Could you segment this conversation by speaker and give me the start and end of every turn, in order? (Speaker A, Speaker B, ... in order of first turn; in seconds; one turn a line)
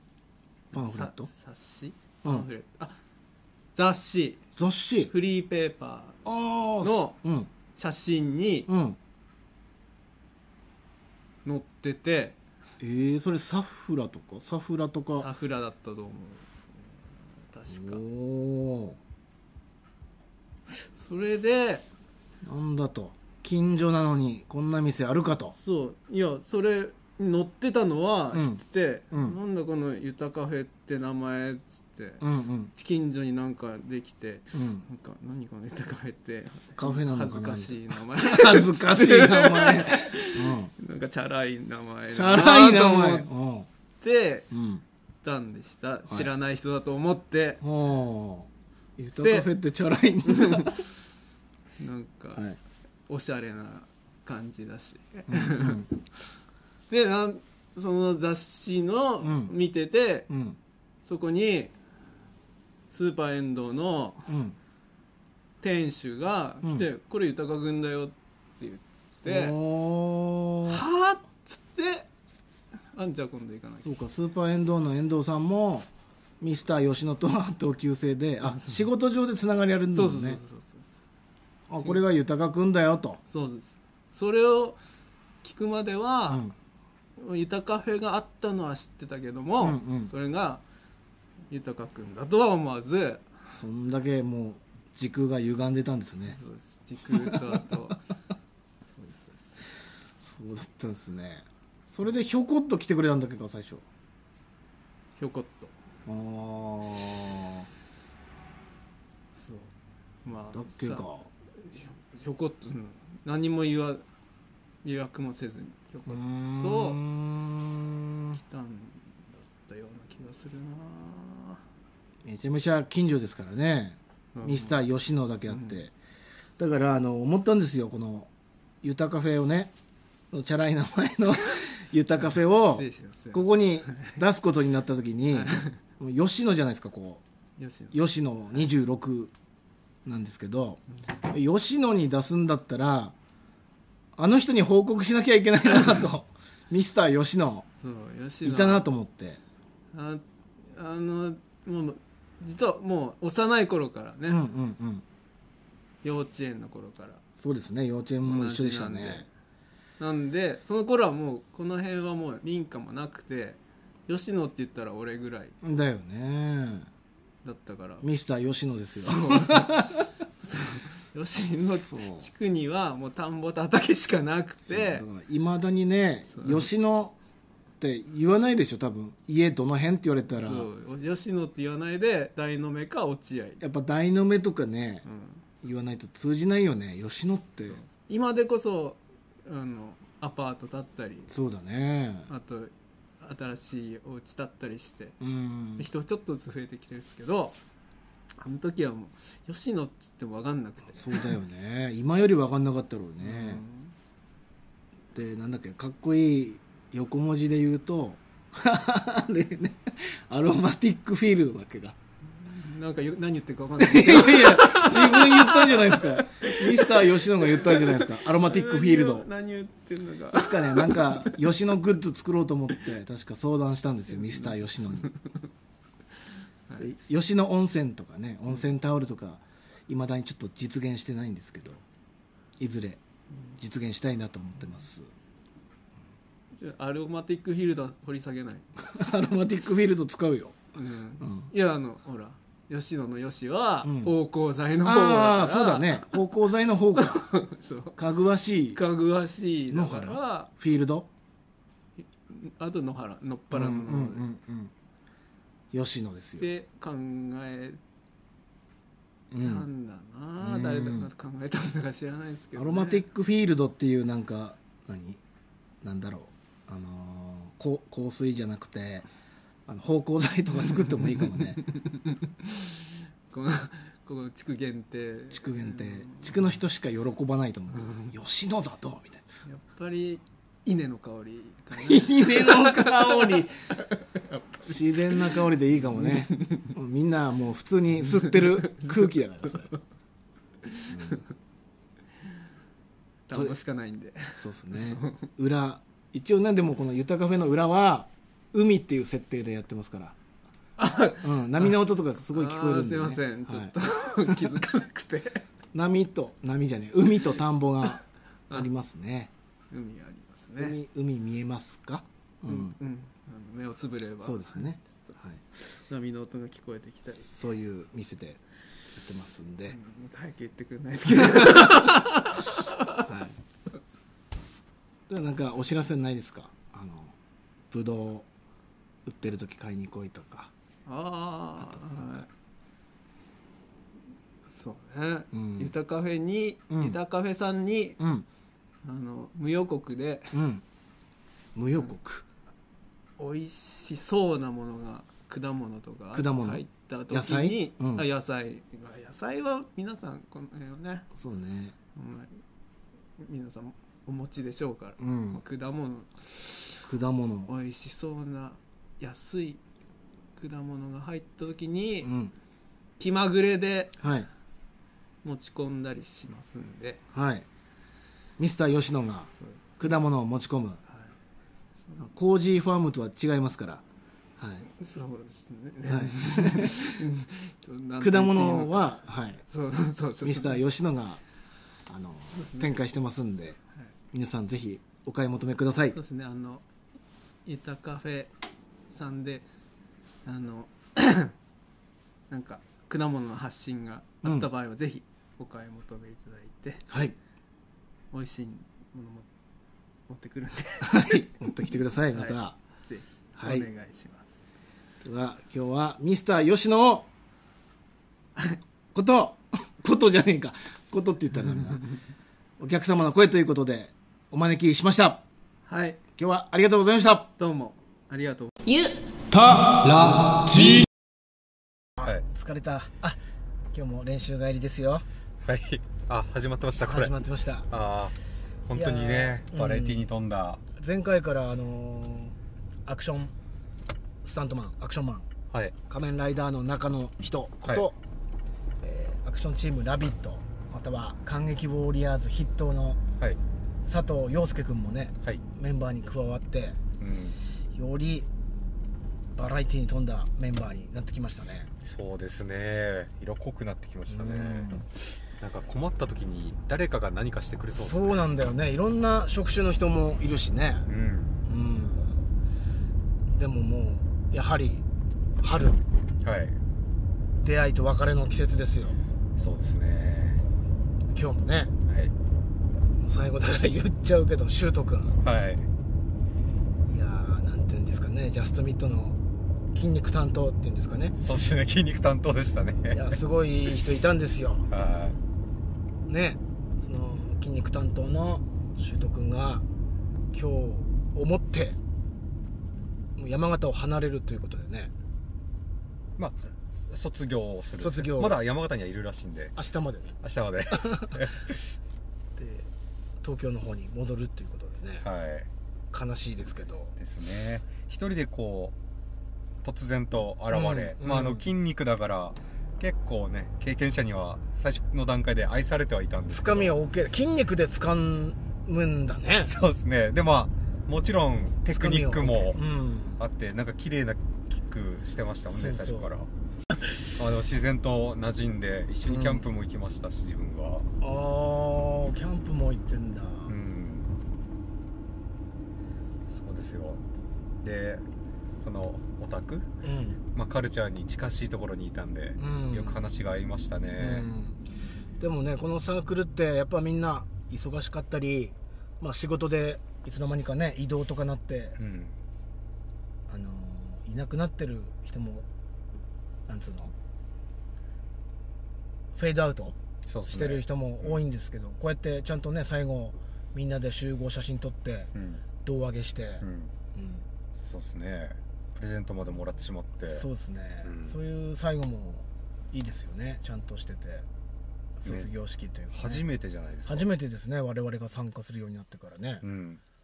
Speaker A: 0.7-3.0
Speaker B: 0.7-1.3
Speaker A: 3.8-4.5
Speaker B: 4.6-5.1
Speaker A: 5.1-6.2
Speaker B: 6.2-7.5
Speaker A: 6.8-7.2
Speaker A: 7.8-8.7
Speaker B: 8.7-9.0
Speaker A: 11.4-12.4
Speaker B: 12.8-15.3
Speaker A: 15.2-18.0
Speaker B: 17.7-19.0
Speaker A: 20.7-21.9
Speaker B: 22.4-25.5
Speaker A: 25.5-43.3
Speaker B: 28.3-29.4
Speaker B: 32.2-32.7
Speaker B: 34.5-34.8
Speaker B: 36.8-40.7
Speaker B: 42.1-43.7
Speaker A: 44.0-44.5
Speaker B: 44.5-44.8
Speaker A: 45.2-47.6
Speaker B: 47.6-50.8
Speaker A: 49.2-49.5
Speaker A: 50.2-50.8
Speaker A: 51.8-52.5
Speaker A: 53.1-56.0
Speaker B: 55.3-55.9
Speaker A: 56.9-60.3
Speaker B: 59.2-59.5
Speaker B: 60.3-60.6
Speaker A: 61.0-61.7
Speaker A: 62.9-64.3
Speaker B: 64.3-64.5
Speaker A: 65.6-69.5
Speaker B: 69.2-70.8
Speaker A: 70.7-72.1
Speaker A: 72.9-74.0
Speaker B: 73.8-75.9
Speaker B: 76.4-80.4
Speaker A: 78.4-78.8
Speaker A: 79.9-80.9
Speaker B: 81.7-83.2
Speaker A: 81.8-82.0
Speaker A: 83.3-84.8
Speaker A: 85.4-86.5
Speaker B: 86.3-86.5
Speaker A: 87.2-90.6
Speaker B: 89.6-90.1
Speaker A: 91.5-93.3
Speaker B: 93.5-96.4
Speaker A: 96.3-98.0
Speaker B: 97.1-97.9
Speaker A: 98.9-99.6
Speaker B: 100.2-103.8
Speaker A: 105.2-105.7
Speaker B: 106.0-107.7
Speaker A: 109.4-109.7
Speaker A: 110.2-114.0
Speaker B: 110.5-111.3
Speaker A: 114.8-117.0
Speaker B: 116.1-118.4
Speaker A: 118.4-121.6
Speaker B: 122.2-125.9
Speaker A: 124.3-124.8
Speaker A: 125.5-125.8
Speaker B: 126.6-128.3
Speaker B: 128.8-129.7
Speaker B: 130.3-137.2
Speaker A: 132.2-134.2
Speaker A: 135.3-135.8
Speaker A: 137.6-138.7
Speaker B: 137.9-139.3
Speaker B: 140.0-143.2
Speaker B: 144.2-147.7
Speaker A: 147.8-148.9
Speaker B: 148.4-149.4
Speaker A: 149.9-154.4
Speaker B: 154.3-155.0
Speaker A: 156.0-157.2
Speaker B: 157.4-159.2
Speaker A: 158.2-159.3
Speaker A: 160.0-165.6
Speaker B: 165.6-166.9
Speaker A: 167.4-168.1
Speaker B: 168.0-170.1
Speaker A: 169.0-175.0
Speaker B: 171.8-172.3
Speaker B: 174.7-177.2
Speaker A: 176.3-176.7
Speaker B: 177.8-180.7
Speaker A: 180.3-183.6
Speaker B: 183.6-185.1
Speaker A: 185.1-185.4
Speaker B: 185.6-187.8
Speaker A: 187.7-191.3
Speaker B: 191.3-192.3
Speaker A: 192.3-195.2
Speaker B: 195.2-195.9
Speaker A: 195.8-197.6
Speaker A: 198.4-201.3
Speaker B: 200.9-203.6
Speaker A: 203.2-203.9
Speaker B: 205.1-212.0
Speaker A: 212.4-221.4
Speaker B: 213.8-219.3
Speaker B: 220.3-225.1
Speaker A: 224.2-225.3
Speaker B: 226.8-231.8
Speaker B: 232.6-233.0
Speaker B: 233.6-235.1
Speaker A: 236.6-238.7
Speaker B: 238.8-240.6
Speaker A: 240.7-246.2
Speaker B: 241.2-241.5
Speaker B: 243.8-244.2
Speaker B: 244.8-247.3
Speaker A: 246.9-248.0
Speaker B: 248.0-248.8
Speaker A: 248.7-250.5
Speaker B: 249.7-251.1
Speaker A: 252.0-254.2
Speaker B: 253.5-254.7
Speaker B: 255.7-256.5
Speaker A: 256.4-257.8
Speaker B: 259.3-259.7
Speaker A: 259.3-263.0
Speaker B: 260.4-261.1
Speaker B: 262.5-265.2
Speaker B: 265.8-269.1
Speaker B: 269.7-271.6
Speaker A: 271.7-276.3
Speaker B: 275.3-279.2
Speaker A: 277.8-278.1
Speaker A: 279.4-286.7
Speaker B: 281.7-283.5
Speaker B: 284.6-289.7
Speaker A: 288.1-289.8
Speaker A: 290.6-291.2
Speaker B: 290.9-291.2
Speaker A: 293.3-295.3
Speaker B: 294.4-300.2
Speaker A: 300.8-301.7
Speaker B: 301.2-304.5
Speaker A: 302.3-305.4
Speaker B: 305.7-309.3
Speaker A: 309.7-310.8
Speaker B: 310.6-312.8
Speaker A: 312.5-317.3
Speaker B: 314.2-315.4
Speaker B: 317.2-318.4
Speaker B: 318.9-319.8
Speaker A: 319.7-323.1
Speaker B: 321.1-322.0
Speaker B: 323.0-323.4
Speaker B: 325.1-327.2
Speaker B: 327.7-328.3
Speaker B: 329.0-330.5
Speaker A: 330.9-332.3
Speaker B: 331.6-332.1
Speaker A: 334.5-338.0
Speaker B: 335.3-335.7
Speaker B: 336.7-337.0
Speaker B: 338.0-338.2
Speaker A: 338.8-340.4
Speaker B: 340.3-340.6
Speaker B: 341.5-342.2
Speaker A: 343.2-351.1
Speaker B: 346.1-348.1
Speaker B: 351.1-351.8
Speaker A: 351.9-352.4
Speaker A: 353.2-356.8
Speaker B: 355.0-355.4
Speaker B: 356.8-357.5
Speaker A: 357.5-359.6
Speaker A: 360.4-362.1
Speaker B: 362.0-362.3
Speaker A: 363.0-364.0
Speaker B: 364.0-364.3
Speaker A: 365.2-367.0
Speaker B: 367.1-367.5
Speaker B: 368.4-370.8
Speaker A: 369.4-369.8
Speaker A: 371.8-372.0
Speaker B: 372.0-373.8
Speaker B: 374.4-374.7
Speaker A: 374.7-378.9
Speaker B: 375.9-377.0
Speaker B: 378.0-379.4
Speaker A: 379.5-380.6
Speaker B: 380.2-381.2
Speaker B: 381.9-383.6
Speaker A: 382.3-382.7
Speaker B: 384.1-386.0
Speaker A: 385.9-386.6
Speaker A: 387.4-388.3
Speaker A: 388.9-389.4
Speaker A: 390.2-391.3
Speaker A: 392.3-396.8
Speaker B: 394.2-394.5
Speaker B: 396.9-397.1
Speaker A: 398.1-399.3
Speaker A: 400.1-401.2
Speaker B: 400.8-402.6
Speaker A: 402.1-404.3
Speaker B: 403.4-403.7
Speaker B: 405.0-407.1
Speaker B: 408.9-411.8
Speaker B: 412.6-415.2
Speaker A: 415.7-416.0
Speaker B: 416.2-417.3
Speaker A: 417.4-418.9
Speaker C: 419.8-420.2
Speaker B: 422.0-423.2
Speaker B: 423.7-425.0
Speaker C: 425.4-427.1
Speaker B: 426.8-427.7
Speaker C: 427.7-428.2
Speaker C: 428.7-430.6
Speaker B: 428.7-430.1
Speaker B: 430.8-433.3
Speaker B: 434.2-435.3
Speaker C: 435.5-435.8
Speaker B: 435.9-438.0
Speaker B: 438.8-443.0
Speaker B: 443.9-446.8
Speaker C: 447.0-447.4
Speaker B: 447.7-448.3
Speaker B: 449.3-451.7
Speaker C: 451.8-458.2
Speaker B: 454.1-454.9
Speaker B: 457.8-460.9
Speaker C: 460.9-461.4
Speaker B: 461.4-462.2
Speaker B: 463.3-464.8
Speaker B: 465.4-465.8
Speaker C: 466.2-466.6
Speaker B: 467.4-469.0
Speaker C: 469.4-470.4
Speaker B: 471.1-471.7
Speaker C: 471.9-472.1
Speaker B: 472.9-475.2
Speaker C: 475.2-475.7
Speaker B: 476.9-479.2
Speaker B: 479.7-481.2
Speaker C: 481.2-483.1
Speaker B: 482.9-484.7
Speaker C: 484.7-485.2
Speaker B: 486.1-489.6
Speaker B: 490.3-491.8
Speaker B: 493.2-494.9
Speaker C: 496.2-499.6
Speaker B: 497.8-498.4
Speaker B: 499.6-500.2
Speaker C: 500.2-501.7
Speaker B: 500.7-501.1
Speaker B: 502.4-505.1
Speaker C: 505.0-505.5
Speaker B: 505.9-507.0
Speaker C: 507.0-508.8
Speaker C: 509.6-516.7
Speaker B: 510.5-511.5
Speaker B: 516.3-519.5
Speaker C: 519.4-522.6
Speaker B: 521.7-523.2
Speaker C: 523.2-526.3
Speaker B: 525.5-526.1
Speaker C: 527.1-530.9
Speaker B: 529.0-529.5
Speaker B: 531.0-533.5
Speaker C: 533.5-534.1
Speaker C: 536.3-537.0
Speaker C: 537.6-538.1
Speaker C: 538.6-539.7
Speaker B: 539.8-540.2
Speaker C: 540.3-544.3
Speaker B: 542.4-543.0
Speaker B: 544.0-544.6
Speaker B: 545.2-551.8
Speaker C: 551.8-552.2
Speaker B: 553.3-555.5
Speaker B: 556.5-556.9
Speaker B: 559.1-559.8
Speaker C: 560.1-561.2
Speaker B: 560.3-565.1
Speaker C: 565.1-565.4
Speaker B: 565.6-567.2
Speaker C: 566.4-566.7
Speaker C: 567.6-570.2
Speaker B: 570.1-574.3
Speaker C: 570.8-571.2
Speaker B: 575.0-576.2
Speaker C: 575.9-577.1
Speaker B: 576.9-579.5
Speaker C: 579.4-579.8